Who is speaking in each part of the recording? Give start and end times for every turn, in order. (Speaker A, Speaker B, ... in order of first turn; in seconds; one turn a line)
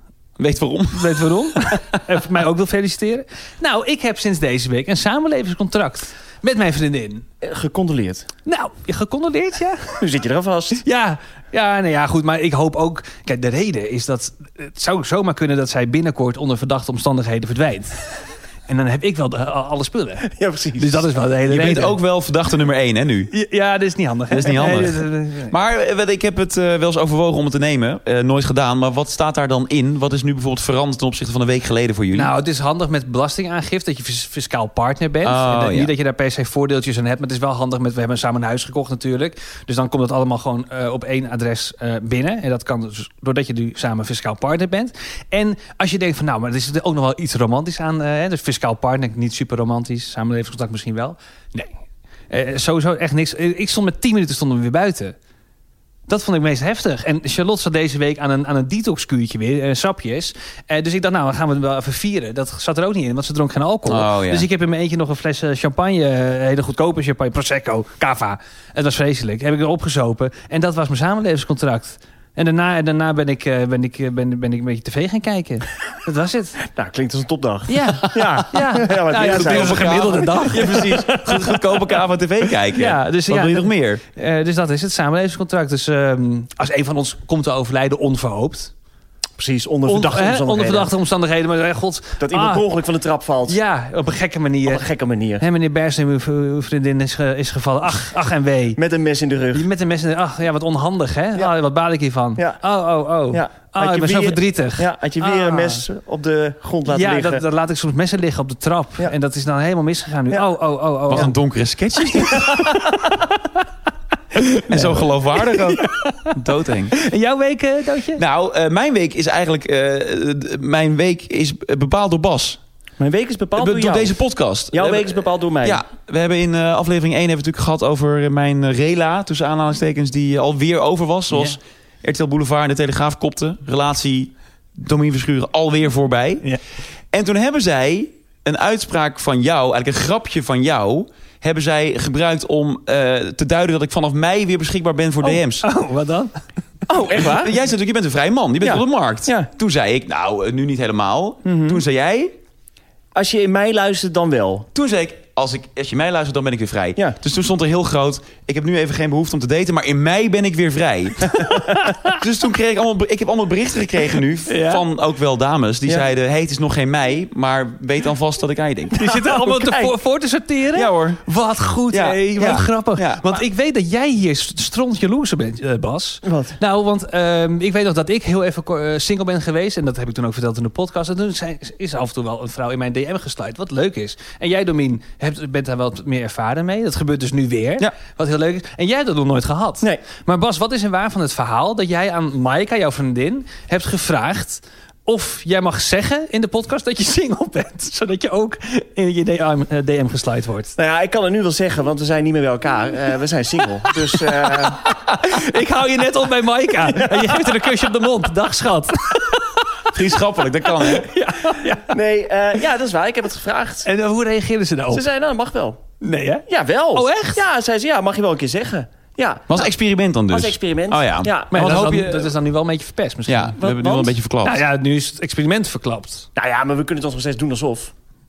Speaker A: 0.4-1.2
Speaker B: 0.9-7.2
Speaker C: 7.4-8.3
Speaker B: 8.4-10.1
Speaker C: 10.0-10.8
Speaker B: 10.8-22.0
Speaker C: 20.2-21.1
Speaker A: 21.5-23.3
Speaker B: 23.3-25.5
Speaker A: 24.3-32.3
Speaker B: 32.1-51.7
Speaker A: 35.2-35.9
Speaker B: 52.3-55.1
Speaker B: 56.1-76.6
Speaker A: 63.9-64.5
Speaker C: 76.6-81.3
Speaker B: 77.7-81.2
Speaker A: 79.1-84.0
Speaker B: 82.7-88.7
Speaker C: 89.4-90.9
Speaker B: 89.9-92.6
Speaker C: 92.2-93.6
Speaker B: 93.5-94.8
Speaker C: 94.6-95.5
Speaker B: 95.4-98.8
Speaker C: 98.8-99.7
Speaker B: 99.5-105.8
Speaker C: 103.3-107.4
Speaker B: 106.9-111.3
Speaker A: 111.1-112.7
Speaker B: 112.1-113.3
Speaker B: 114.3-116.3
Speaker A: 114.5-117.0
Speaker B: 116.9-118.2
Speaker A: 118.2-122.6
Speaker C: 123.0-124.2
Speaker A: 123.6-136.4
Speaker C: 124.7-125.8
Speaker A: 137.1-145.6
Speaker B: 145.2-146.4
Speaker C: 146.9-147.5
Speaker A: 147.3-152.3
Speaker C: 148.6-149.5
Speaker C: 151.4-151.8
Speaker C: 153.1-154.7
Speaker A: 154.7-161.5
Speaker B: 161.5-161.9
Speaker A: 162.1-168.9
Speaker B: 164.5-164.8
Speaker C: 168.9-169.9
Speaker B: 168.9-200.7
Speaker A: 170.7-171.2
Speaker A: 171.9-173.4
Speaker C: 176.2-176.6
Speaker C: 200.8-204.8
Speaker B: 204.1-209.7
Speaker C: 206.8-207.9
Speaker A: 209.9-211.1
Speaker B: 210.8-211.9
Speaker C: 211.9-213.9
Speaker B: 213.8-215.1
Speaker C: 214.9-215.8
Speaker B: 216.0-217.4
Speaker C: 216.5-219.7
Speaker A: 219.5-222.3
Speaker C: 220.3-221.9
Speaker B: 221.5-223.6
Speaker A: 223.2-224.6
Speaker C: 223.6-224.1
Speaker B: 224.4-226.3
Speaker C: 226.3-227.9